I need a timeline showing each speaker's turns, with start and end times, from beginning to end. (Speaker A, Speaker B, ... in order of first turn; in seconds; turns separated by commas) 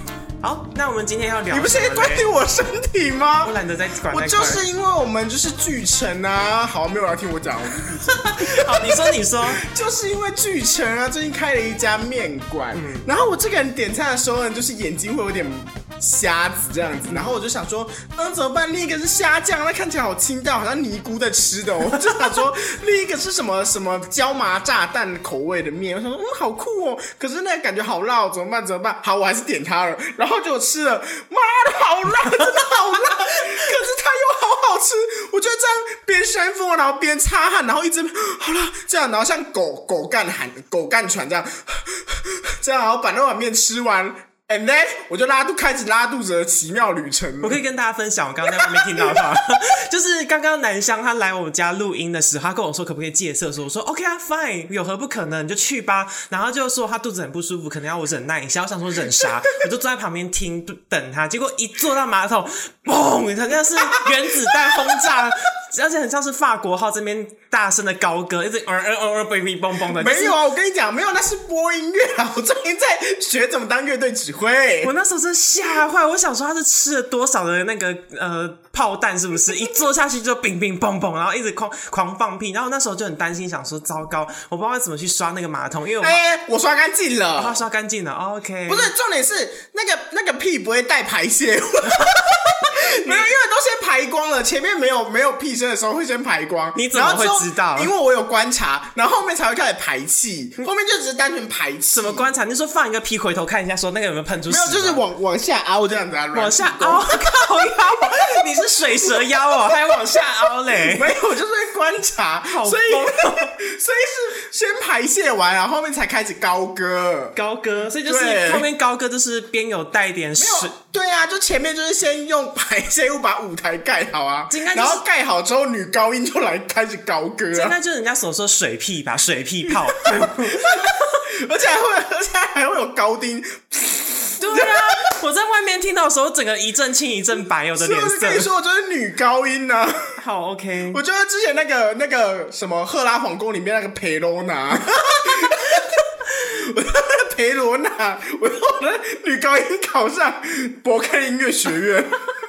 Speaker A: 0.4-2.3, Speaker B: 1.5-3.5, Speaker A: 3.4-4.6, Speaker B: 4.1-47.6, Speaker A: 8.1-9.6, Speaker A: 12.7-13.1, Speaker A: 17.1-17.4, Speaker A: 47.4-70.4, Speaker B: 48.4-49.3, Speaker B: 63.8-65.2, Speaker B: 69.9-74.9, Speaker A: 74.8-86.2, Speaker B: 86.0-87.6, Speaker A: 87.4-88.9, Speaker B: 88.7-102.3, Speaker A: 92.6-93.3, Speaker A: 96.7-97.9, Speaker A: 101.9-105.0, Speaker B: 104.5-110.0, Speaker A: 106.3-111.2, Speaker B: 110.7-117.3, Speaker A: 112.5-113.5, Speaker A: 117.3-120.7, Speaker B: 118.0-118.7, Speaker B: 120.4-127.8, Speaker A: 124.5-125.0, Speaker A: 127.5-131.1, Speaker B: 129.7-134.8, Speaker A: 134.4-138.5, Speaker B: 137.8-140.2, Speaker A: 140.2-141.0, Speaker B: 140.9-152.3